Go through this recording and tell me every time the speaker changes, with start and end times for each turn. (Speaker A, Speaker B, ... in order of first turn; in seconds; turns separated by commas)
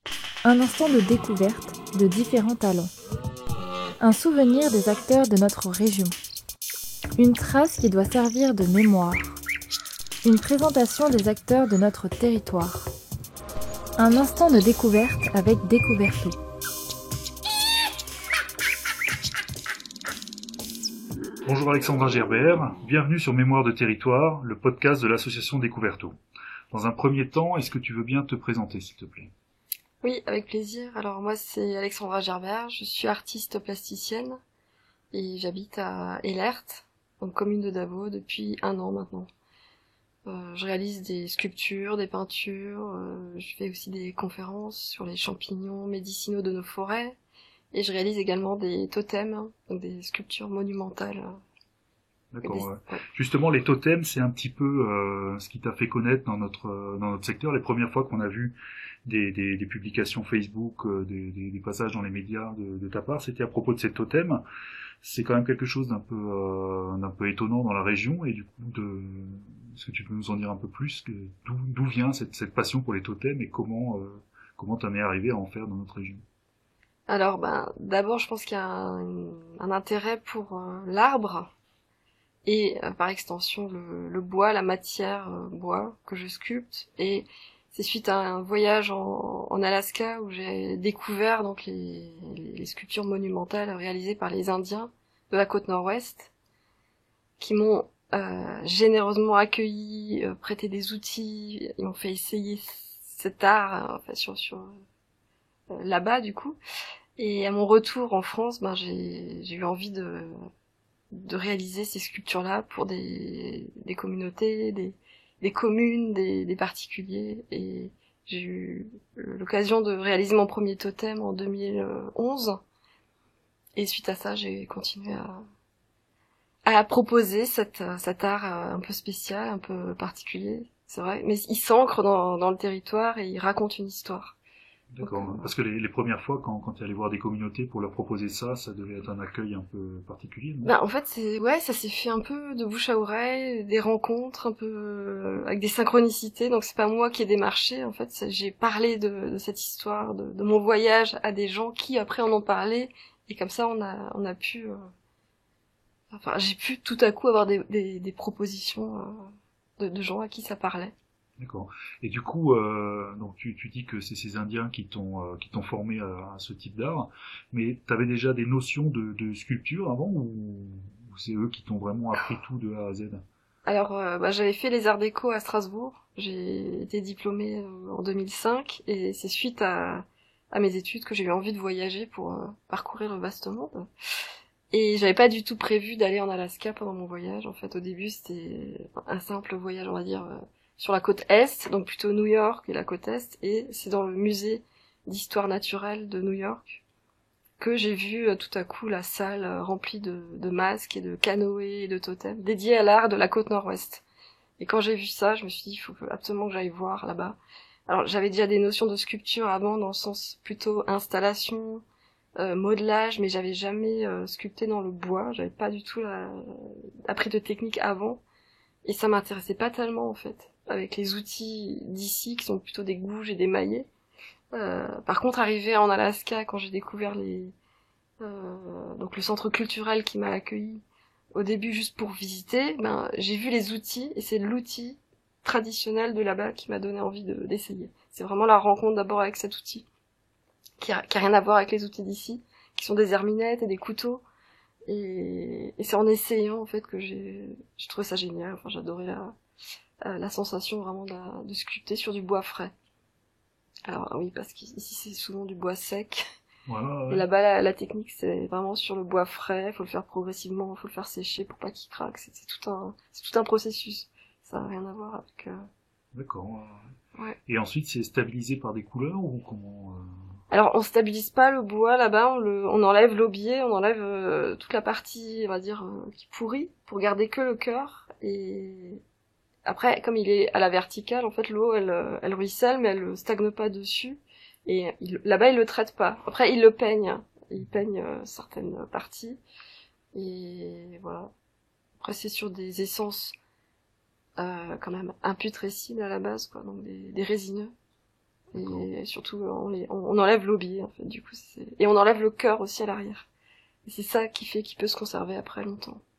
Speaker A: 0.4-2.9, Speaker A: 4.0-6.2, Speaker A: 7.2-9.4, Speaker A: 10.2-12.9, Speaker A: 14.0-16.4, Speaker B: 21.5-26.1, Speaker B: 26.7-29.3, Speaker C: 30.0-34.4, Speaker C: 35.1-39.3, Speaker C: 40.3-47.2, Speaker C: 47.7-51.4, Speaker B: 52.3-64.4, Speaker C: 52.4-53.0, Speaker B: 65.0-76.2, Speaker C: 77.1-81.5, Speaker C: 82.5-96.3, Speaker C: 97.4-104.8, Speaker C: 105.7-106.6, Speaker C: 107.2-110.4, Speaker C: 111.1-122.6, Speaker C: 123.8-125.4, Speaker C: 126.7-134.4, Speaker B: 134.9-140.7, Speaker C: 135.0-135.5, Speaker C: 140.6-154.8, Speaker C: 156.1-160.9, Speaker B: 161.4-173.2, Speaker C: 173.7-183.9, Speaker C: 184.7-196.8, Speaker C: 197.6-204.1, Speaker C: 204.6-211.8, Speaker C: 212.4-218.2, Speaker C: 218.8-223.9, Speaker C: 224.5-227.5, Speaker C: 228.2-239.9, Speaker C: 240.8-244.2, Speaker C: 244.9-249.3, Speaker C: 250.0-252.7, Speaker C: 253.9-256.2, Speaker B: 256.7-257.2, Speaker C: 257.1-265.6, Speaker B: 266.1-266.8, Speaker B: 267.5-270.1, Speaker C: 270.5-279.0, Speaker C: 279.6-289.4, Speaker C: 290.1-291.3, Speaker C: 292.0-293.4, Speaker C: 294.4-297.7, Speaker B: 298.5-298.9, Speaker C: 298.5-303.3, Speaker C: 303.9-306.0